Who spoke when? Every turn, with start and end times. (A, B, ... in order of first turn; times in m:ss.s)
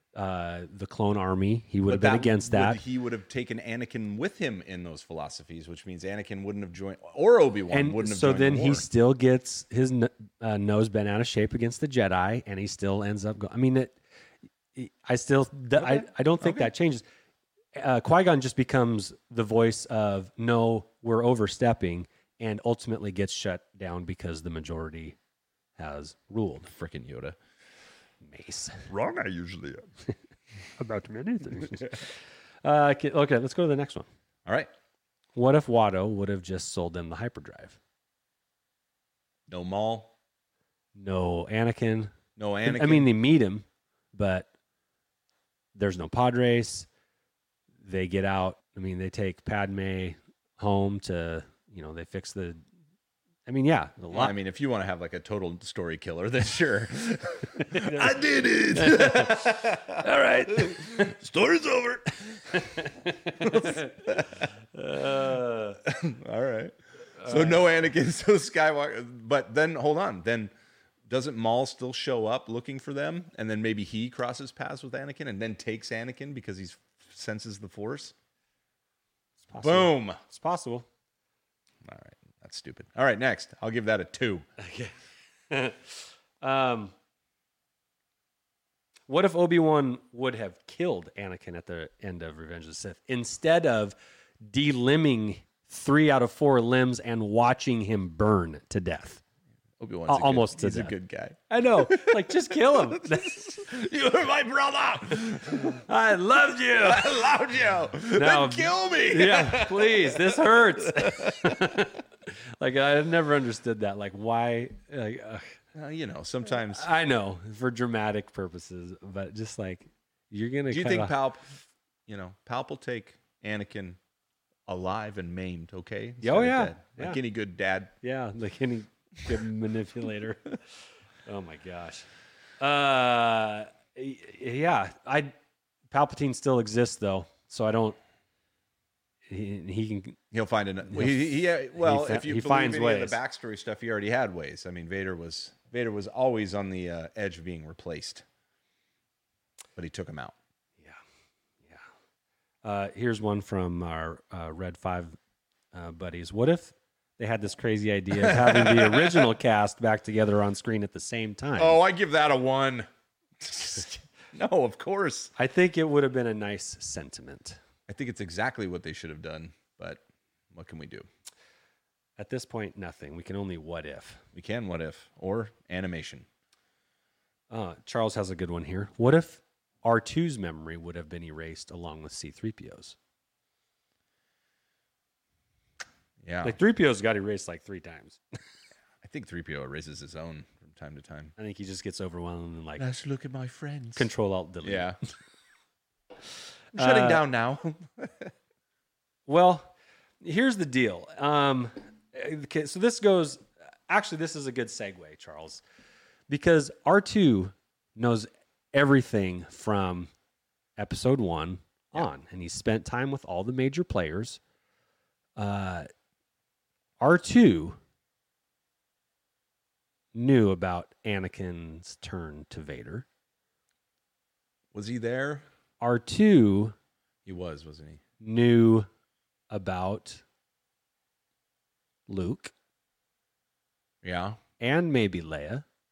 0:00.1-0:02.8 A
0:01.9-0:08.8 B
0:07.7-0:14.0 A
0:14.7-0:17.0 A
0:15.7-0:16.7 B
0:17.7-0:25.2 A
0:25.8-0:26.7 A
0:26.7-0:27.4 B
0:28.2-0:28.9 A
0:28.9-0:29.9 B
0:30.8-0:34.1 A
0:34.4-0:34.7 B
0:35.3-0:37.8 A
0:39.5-0:40.1 B
0:40.9-0:42.1 A
0:42.4-0:43.1 B
0:42.6-0:44.5 A
0:45.7-0:46.9 A
0:47.8-0:52.6 A
0:53.5-0:54.4 A
0:54.1-1:02.6 B
0:57.6-1:01.2 A
1:02.5-1:05.8 A
1:03.4-1:04.4 B
1:05.8-1:10.5 B
1:07.2-1:07.7 A
1:11.1-1:18.1 B
1:19.4-1:20.9 A
1:19.6-1:20.2 B
1:21.8-1:24.4 B
1:24.6-1:24.9 A
1:25.5-1:26.9 A
1:29.1-1:39.2 A
1:39.8-1:45.8 B
1:40.1-1:41.0 A
1:41.5-1:43.3 A
1:45.5-1:47.2 A
1:46.8-1:51.8 B
1:48.1-1:55.6 A
1:55.7-1:56.9 B
1:56.6-2:01.1 A
2:00.7-2:01.4 B
2:02.1-2:04.0 B
2:04.6-2:07.9 B
2:06.2-2:07.2 A
2:08.0-2:12.1 A
2:12.6-2:15.3 A
2:15.9-2:18.0 A
2:19.3-2:20.2 A
2:20.3-2:28.2 B
2:20.8-2:23.2 A
2:29.8-2:30.3 B
2:32.6-2:35.2 A
2:35.7-2:41.8 A
2:38.2-2:39.3 B
2:41.6-2:42.9 B
2:43.4-2:45.3 B
2:45.4-2:47.6 A
2:47.9-2:51.1 B
2:52.2-2:54.2 A
2:54.3-2:56.3 B
2:57.5-3:03.0 A
3:06.2-3:06.6 B
3:06.4-3:08.2 A
3:09.0-3:11.3 B
3:11.4-3:12.8 A
3:12.8-3:14.1 B
3:14.0-3:14.9 A
3:14.6-3:15.0 B
3:16.7-3:18.3 B
3:16.7-3:17.2 A
3:19.2-3:25.6 A
3:26.3-3:30.1 A
3:30.8-3:34.4 A
3:35.4-3:35.9 A
3:37.0-3:37.8 A
3:40.1-3:43.0 A
3:44.7-3:45.4 B
3:45.8-3:46.7 A
3:47.2-3:48.0 B
3:48.2-3:48.9 A
3:49.5-3:50.2 A
3:52.1-3:52.5 A
3:54.0-3:54.4 B
3:54.6-3:55.6 A